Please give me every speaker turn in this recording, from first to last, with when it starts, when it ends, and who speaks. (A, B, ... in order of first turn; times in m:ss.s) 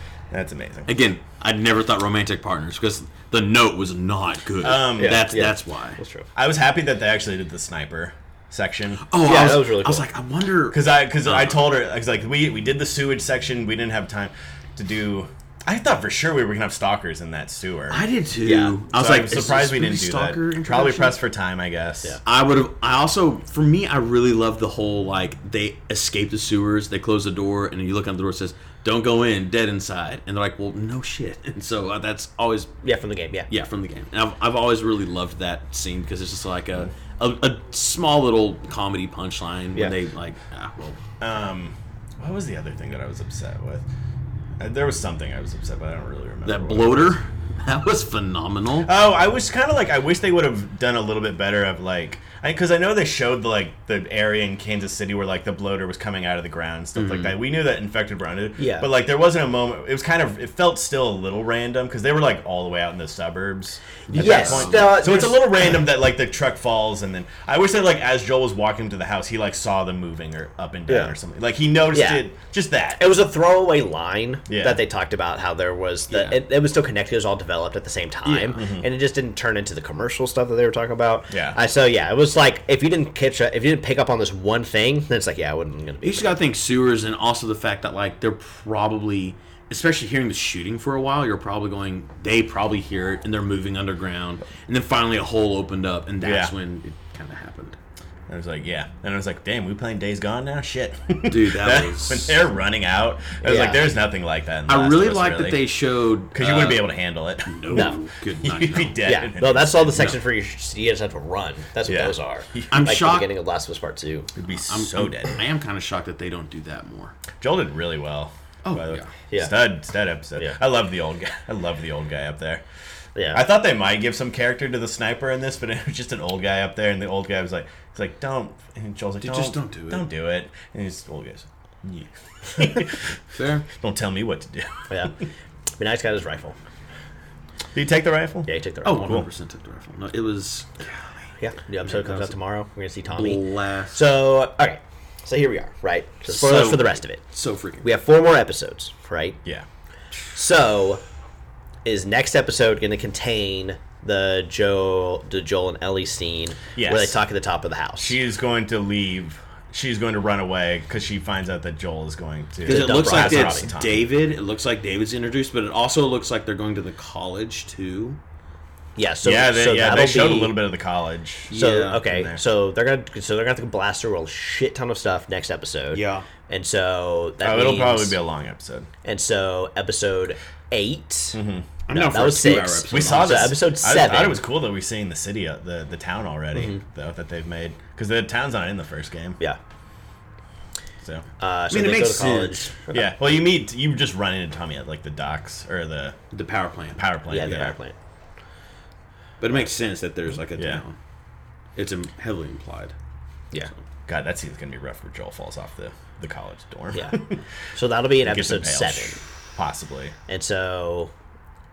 0:00.3-0:00.9 A
0:00.9-0:06.0 B
0:04.6-0:05.4 A
0:05.0-0:06.3 C
0:06.4-0:09.1 A
0:09.0-0:11.6 B
0:09.2-0:10.0 C
0:10.7-0:18.0 A
0:17.9-0:21.2 B
0:18.4-0:18.8 C
0:18.9-0:22.2 A
0:22.2-0:32.7 B
0:32.8-0:33.5 C
0:33.5-0:41.0 B
0:41.2-0:43.8 A
0:44.6-0:47.2 A
0:46.4-0:48.9 B
0:48.8-1:13.2 A
0:57.0-0:57.4 B
0:58.6-0:58.9 C
1:04.1-1:05.2 B
1:04.1-1:05.5 C
1:10.9-1:11.1 C
1:11.9-1:12.2 C
1:13.0-1:26.4 C
1:14.5-1:14.8 A
1:16.1-1:16.4 B
1:18.2-1:18.6 B
1:18.5-1:18.9 A
1:21.3-1:21.6 A
1:26.0-1:37.8 B
1:36.2-1:36.5 A
1:38.3-1:45.6 A
1:41.3-1:42.4 B
1:43.4-1:43.8 C
1:44.7-1:46.9 B
1:46.3-1:50.1 A
1:47.4-1:49.2 B
1:47.7-1:48.0 C
1:49.0-1:54.3 C
1:51.8-1:52.9 A
1:52.7-1:53.3 B
1:54.4-1:55.4 A
1:54.5-1:57.1 B
1:57.4-2:02.6 A
1:58.6-1:59.1 B
1:59.3-1:59.7 C
2:03.2-2:03.4 C
2:03.3-2:13.2 A
2:09.2-2:10.0 B
2:13.3-2:13.6 B
2:13.7-2:14.9 A
2:15.8-2:16.6 C
2:17.7-2:18.5 A
2:18.5-2:19.2 C
2:18.8-2:21.2 B
2:21.4-2:27.2 C
2:21.8-2:22.4 B
2:23.1-2:24.0 B
2:26.3-2:27.8 B
2:27.8-2:29.4 C
2:30.3-2:31.0 C
2:31.8-2:38.2 C
2:36.8-2:37.2 A
2:38.0-2:44.1 A
2:42.6-2:43.7 C
2:42.6-2:48.2 B
2:49.0-2:50.6 C
2:49.2-2:52.4 A
2:51.5-2:52.0 B
2:51.5-2:58.2 C
2:55.9-2:56.3 B
2:57.4-2:58.9 A
2:59.0-3:01.4 C
3:01.3-3:01.7 A
3:01.9-3:03.6 B
3:01.9-3:04.4 C
3:02.9-3:09.4 A
3:06.5-3:06.8 C
3:11.4-3:13.1 C
3:11.7-3:12.7 B
3:12.9-3:16.2 A
3:16.3-3:17.6 B
3:16.9-3:17.7 A
3:17.3-3:17.9 C
3:19.4-3:21.0 B
3:20.6-3:20.8 A
3:21.8-3:22.9 B
3:24.1-3:27.4 A
3:26.9-3:29.2 C
3:28.2-3:30.1 A
3:30.3-3:31.1 C